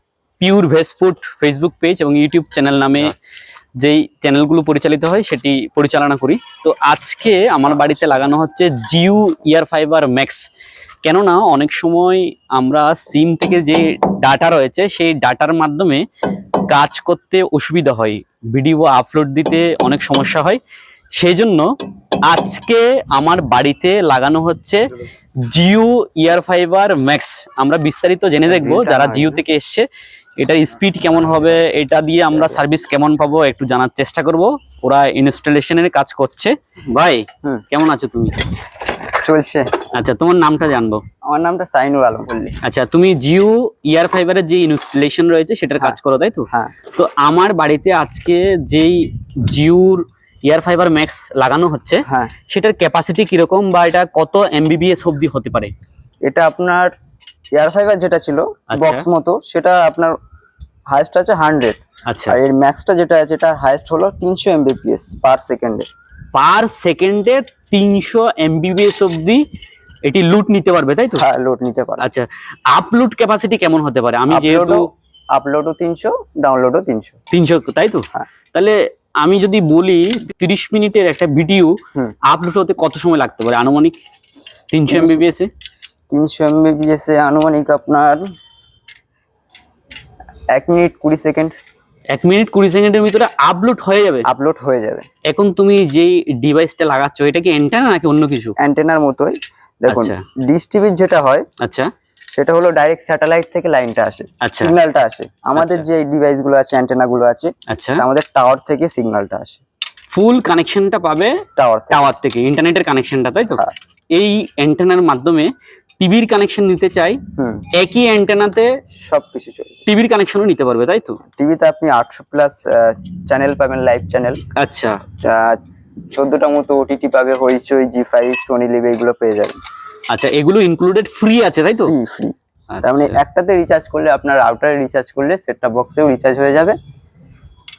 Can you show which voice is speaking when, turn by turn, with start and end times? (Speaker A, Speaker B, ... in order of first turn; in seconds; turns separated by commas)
Speaker A: 0.4-3.1, Speaker A: 3.8-10.5, Speaker A: 11.0-16.0, Speaker A: 16.7-20.6, Speaker A: 21.1-21.6, Speaker A: 22.3-24.9, Speaker A: 25.4-29.9, Speaker B: 28.5-29.4, Speaker A: 30.4-38.4, Speaker B: 39.1-39.7, Speaker A: 39.9-41.0, Speaker B: 41.2-42.6, Speaker A: 42.6-55.7, Speaker B: 52.1-52.3, Speaker B: 56.2-56.9, Speaker B: 57.5-60.2, Speaker A: 58.7-59.0, Speaker B: 60.9-65.9, Speaker A: 62.1-62.4, Speaker A: 66.3-69.4, Speaker A: 70.1-71.2, Speaker B: 71.2-72.1, Speaker A: 72.0-74.8, Speaker B: 74.3-77.2, Speaker A: 77.3-81.8, Speaker A: 82.3-84.0, Speaker A: 84.7-85.5, Speaker B: 84.9-85.2, Speaker B: 86.1-88.2, Speaker B: 90.5-91.6, Speaker A: 92.1-94.3, Speaker B: 94.2-95.1, Speaker A: 95.2-98.5, Speaker B: 98.6-101.5, Speaker A: 99.9-100.2, Speaker A: 101.6-101.9, Speaker B: 102.3-109.6, Speaker A: 104.4-104.8, Speaker A: 105.6-105.8, Speaker A: 107.7-108.0, Speaker A: 110.1-113.6, Speaker B: 111.6-112.1, Speaker A: 114.1-117.2, Speaker B: 117.4-117.6, Speaker A: 117.8-118.7, Speaker B: 118.9-119.8, Speaker A: 119.9-121.2, Speaker B: 121.3-124.4, Speaker A: 124.6-125.0, Speaker B: 125.2-125.6, Speaker B: 126.1-129.5, Speaker A: 130.1-131.9, Speaker B: 131.8-136.8, Speaker A: 132.7-133.2